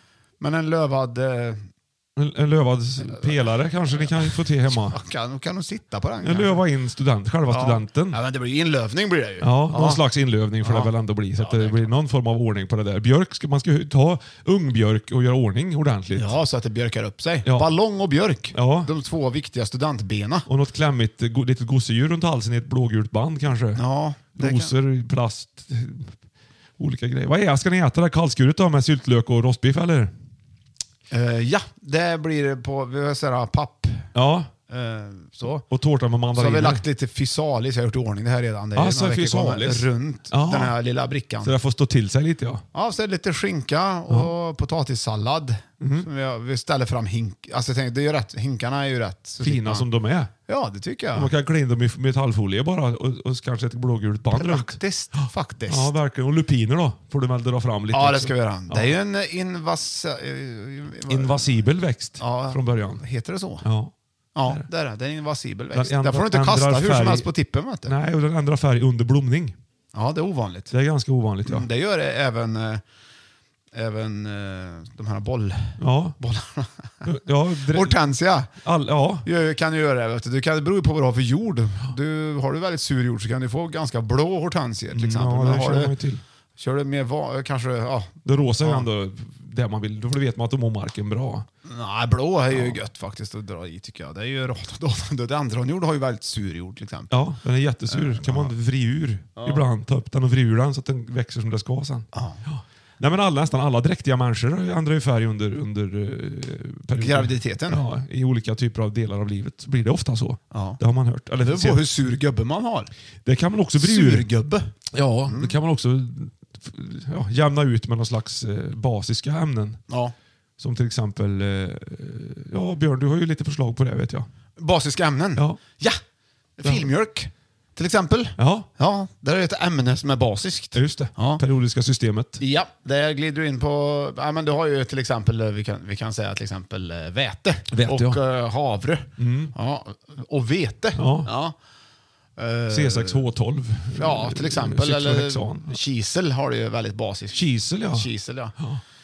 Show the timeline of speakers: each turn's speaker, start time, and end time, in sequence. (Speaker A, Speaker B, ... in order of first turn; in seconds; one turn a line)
Speaker A: 0.4-1.6
Speaker B: 2.1-5.0
Speaker A: 3.0-6.6
Speaker B: 6.2-8.2
Speaker A: 7.5-10.0
Speaker B: 9.4-16.3
Speaker A: 10.6-11.9
Speaker A: 16.1-20.5
Speaker B: 17.4-17.7
Speaker B: 18.5-18.9
Speaker B: 20.4-23.8
Speaker A: 23.7-24.7
Speaker B: 24.4-26.1
Speaker B: 26.8-30.1
Speaker A: 31.1-34.1
Speaker B: 34.1-34.5
Speaker A: 34.7-35.6
Speaker B: 35.7-36.8
Speaker A: 36.4-41.5
Speaker B: 38.7-40.8
Speaker B: 41.4-42.6
Speaker A: 42.7-49.9
Speaker B: 45.8-46.1
Speaker B: 49.4-50.3
Speaker A: 50.5-51.3
Speaker B: 51.1-58.9
Speaker A: 54.3-55.9
Speaker A: 57.9-63.6
Speaker B: 61.1-63.0
Speaker B: 63.6-63.9
Speaker A: 64.3-67.9
Speaker B: 65.7-67.3
Speaker B: 67.8-69.5
Speaker A: 69.9-70.7
Speaker B: 70.7-71.7
Speaker A: 71.4-72.8
Speaker A: 73.7-77.1
Speaker B: 75.8-76.2
Speaker B: 77.0-78.0
Speaker A: 77.6-78.5
Speaker B: 78.5-79.2
Speaker A: 79.2-85.9
Speaker B: 84.9-86.2
Speaker A: 86.6-88.9
Speaker B: 88.2-91.5
Speaker A: 91.6-97.1
Speaker B: 92.5-92.8
Speaker B: 97.1-111.9
Speaker A: 97.9-98.5
Speaker A: 99.3-99.6
Speaker A: 102.1-102.4
Speaker A: 107.0-107.8
Speaker A: 110.5-110.8
Speaker A: 111.4-112.9
Speaker B: 113.2-114.3
Speaker A: 113.8-114.7
Speaker B: 114.9-119.8
Speaker A: 115.2-115.5
Speaker A: 119.9-120.1
Speaker B: 120.6-124.3
Speaker A: 124.6-126.0
Speaker B: 125.3-125.6
Speaker A: 126.6-131.4
Speaker B: 126.6-126.9
Speaker B: 128.4-128.7
Speaker B: 130.7-132.4
Speaker A: 132.4-141.5
Speaker B: 137.7-138.2
Speaker B: 139.2-139.5
Speaker B: 140.9-141.3
Speaker A: 142.4-143.2
Speaker B: 142.7-145.8
Speaker A: 143.9-148.6
Speaker B: 147.3-148.8